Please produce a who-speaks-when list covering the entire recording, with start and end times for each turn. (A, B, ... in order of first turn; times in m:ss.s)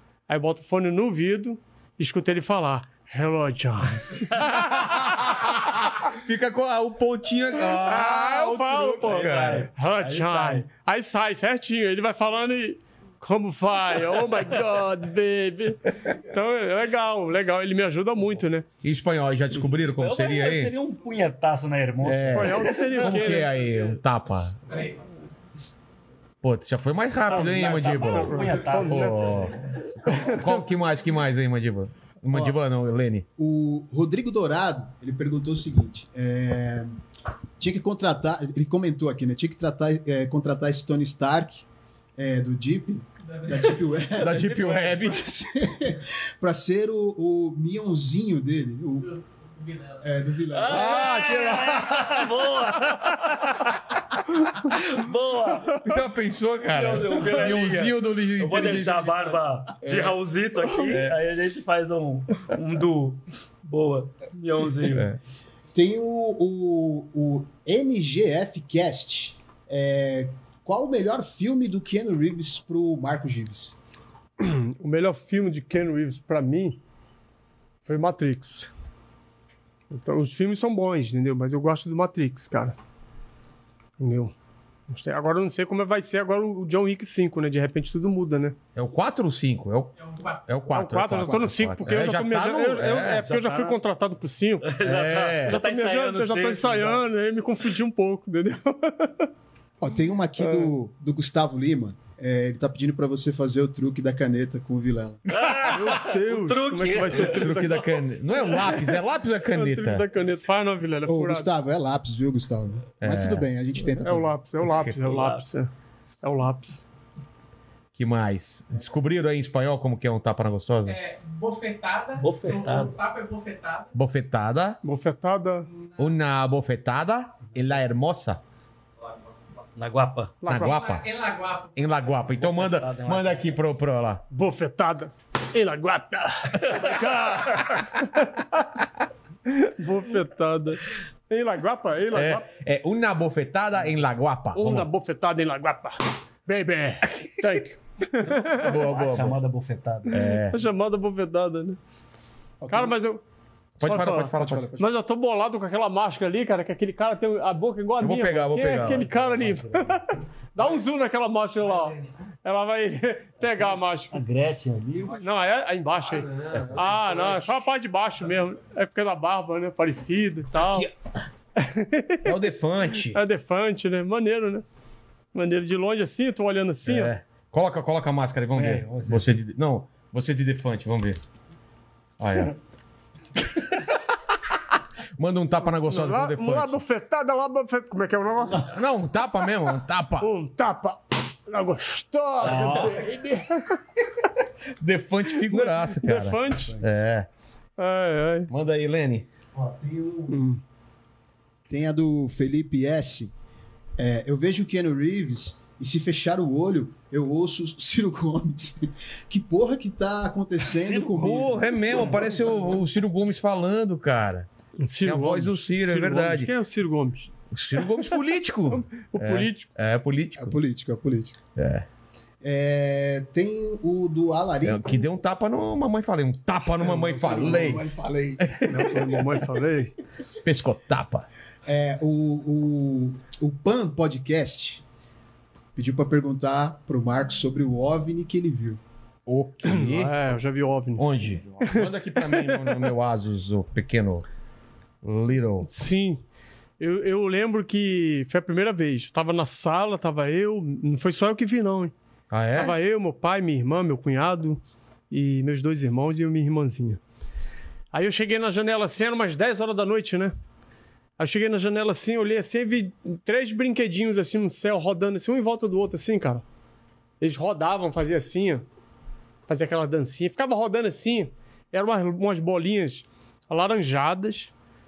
0:00.3-0:05.6 A
0:04.5-0:09.7 B
0:07.6-0:18.6 A
0:09.0-0:10.7 C
0:18.8-0:20.7 B
0:19.7-0:23.3 C
0:22.0-0:24.6 B
0:22.3-0:23.5 A
0:24.7-0:25.1 D
0:26.4-0:33.3 B
0:27.3-0:29.5 C
0:27.3-0:29.5 A
0:30.1-0:30.6 A
0:32.3-0:32.6 E
0:33.4-0:37.0 E
0:37.6-0:49.2 E
0:44.1-0:45.3 B
0:49.6-0:50.0 D
0:50.0-0:51.2 E
0:50.5-0:53.8 C
0:50.7-0:52.4 B
0:54.6-0:55.8 C
0:55.7-1:00.2 B
0:56.7-1:05.1 C
1:00.7-1:01.2 B
1:04.8-1:05.2 B
1:05.7-1:13.8 E
1:14.4-1:16.8 A
1:17.8-1:18.7 A
1:19.9-1:22.8 A
1:24.0-1:24.3 A
1:24.9-1:28.6 A
1:28.7-1:30.0 B
1:30.5-1:33.2 B
1:30.7-1:34.8 A
1:32.9-1:33.8 C
1:34.6-1:37.0 C
1:34.8-1:35.6 B
1:35.4-1:39.3 A
1:39.8-1:45.2 E
1:40.4-1:40.7 A
1:45.3-1:47.9 C
1:45.4-1:45.7 B
1:45.6-1:51.5 A
1:47.1-1:50.0 B
1:51.0-1:54.4 E
1:53.0-1:53.5 B
1:53.8-1:55.7 A
1:54.6-1:55.0 B
1:55.0-1:55.5 C
1:56.2-1:56.8 A
1:57.9-2:01.0 B
2:00.8-2:03.9 D
2:02.2-2:02.9 C
2:03.9-2:04.8 B
2:04.8-2:05.7 A
2:06.0-2:08.4 B
2:09.8-2:10.4 C
2:10.4-2:10.8 A
2:10.4-2:11.1 B
2:10.6-2:12.1 D
2:11.8-2:14.2 B
2:12.4-2:13.5 C
2:14.3-2:18.6 A
2:19.5-2:22.4 A
2:22.1-2:24.9 B
2:24.5-2:28.6 A
2:28.2-2:30.3 C
2:28.5-2:29.4 B
2:30.1-2:30.6 B
2:30.2-2:31.8 A
2:32.6-2:33.0 E
2:32.7-2:33.2 A
2:33.8-2:34.7 B
2:33.8-2:44.2 A
2:34.3-2:34.9 E
2:38.0-2:39.1 B
2:38.8-2:40.0 C
2:44.1-2:45.2 C
2:45.1-2:50.9 A
2:46.0-2:47.6 B
2:46.5-2:46.9 C
2:51.6-2:52.3 A
2:52.2-2:53.2 B
2:53.1-2:54.6 A
2:55.3-2:57.1 A
2:56.8-3:01.2 B
2:58.5-2:59.3 C
3:02.2-3:02.6 B
3:05.2-3:06.8 B
3:05.8-3:08.7 A
3:08.6-3:10.3 B
3:10.2-3:13.8 A
3:12.4-3:13.0 B
3:12.4-3:13.0 C
3:14.8-3:17.3 B
3:15.3-3:16.8 A
3:17.8-3:18.5 A
3:18.5-3:19.2 B
3:19.5-3:20.4 E
3:20.3-3:20.6 A
3:21.7-3:23.3 E
3:24.0-3:32.8 E
3:30.7-3:31.4 C
3:31.1-3:36.5 B
3:34.8-3:37.3 A
3:37.5-3:40.6 B
3:38.7-3:39.7 A
3:40.4-3:41.4 E
3:41.6-3:41.8 B
3:42.4-3:45.0 E
3:44.6-3:47.8 B
3:46.8-3:48.9 E
3:48.4-3:49.2 B
3:48.6-3:49.9 A
3:50.4-3:51.3 B
3:51.6-3:54.8 E
3:55.8-3:58.8 E
3:59.2-4:00.2 B
3:59.6-4:02.9 A
4:01.0-4:04.2 B
4:05.0-4:05.7 B
4:05.6-4:06.2 A
4:06.8-4:11.9 A
4:12.3-4:12.7 B
4:12.5-4:17.0 A
4:17.9-4:20.3 A
4:21.2-4:26.4 A
4:27.2-4:28.6 A
4:29.5-4:34.5 A